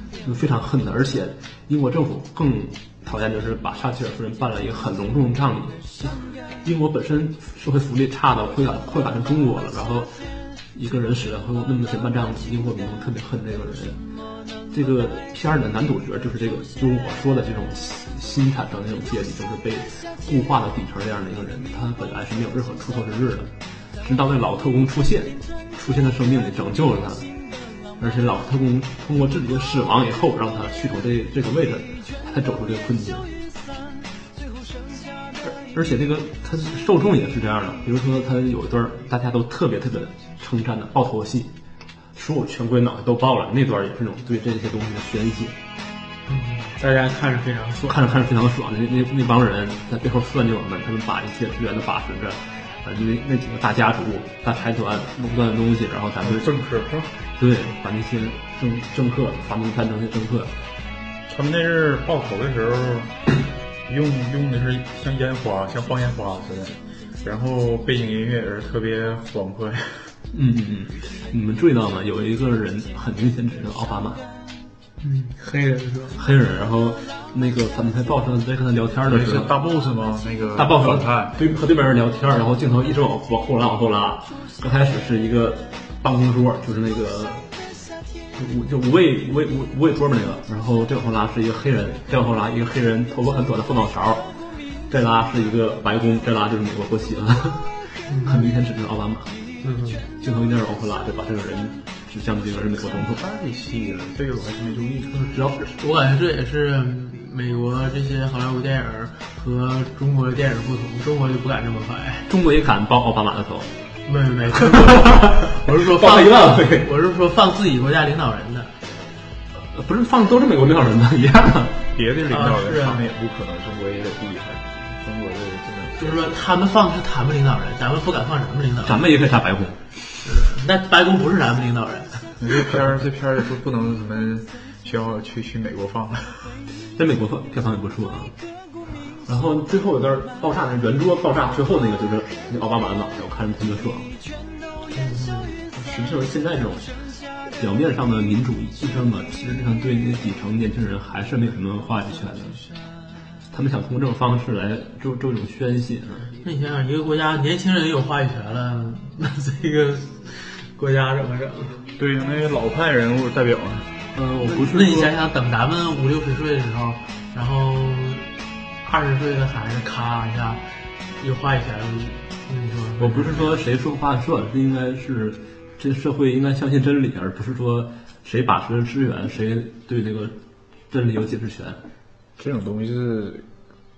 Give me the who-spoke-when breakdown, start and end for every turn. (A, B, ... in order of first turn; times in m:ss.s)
0:00.2-0:10.2 A
0:10.7-0:14.0 A
0:14.7-0:27.3 A
0:28.0-0:33.3 A
0:35.4-0:41.5 A
0:42.1-0:45.6 A
0:46.3-0:48.0 B
0:47.9-0:56.5 A
0:56.2-0:57.1 C
0:57.4-1:00.5 A
1:01.3-1:03.2 C
1:03.9-1:10.1 C
1:10.3-1:14.2 A
1:15.0-1:16.2 B
1:16.1-1:19.5 A
1:19.1-1:21.4 C
1:20.6-1:27.5 A
1:28.4-1:34.2 A
1:34.9-1:39.3 A
1:38.1-1:38.5 B
1:39.6-1:40.1 B
1:40.2-1:43.2 A
1:42.9-1:45.6 C
1:45.7-1:52.3 B
1:52.3-1:53.7 A
1:54.1-1:58.7 B
1:54.6-1:56.9 A
1:59.7-2:01.8 A
2:01.9-2:06.3 C
2:02.3-2:03.0 B
2:06.0-2:09.0 B
2:08.8-2:09.8 A
2:10.2-2:12.3 B
2:12.4-2:16.6 C
2:17.0-2:18.4 A
2:19.2-2:24.1 A
2:24.9-2:25.5 B
2:25.7-2:26.9 A
2:27.6-2:32.6 A
2:33.5-2:36.3 A
2:36.4-2:41.8 B
2:42.0-2:43.9 C
2:44.1-2:45.1 A
2:44.4-2:48.2 B
2:48.8-2:50.6 B
2:51.2-2:53.6 B
2:53.0-3:00.4 A
3:00.9-3:01.8 A
3:02.4-3:03.4 C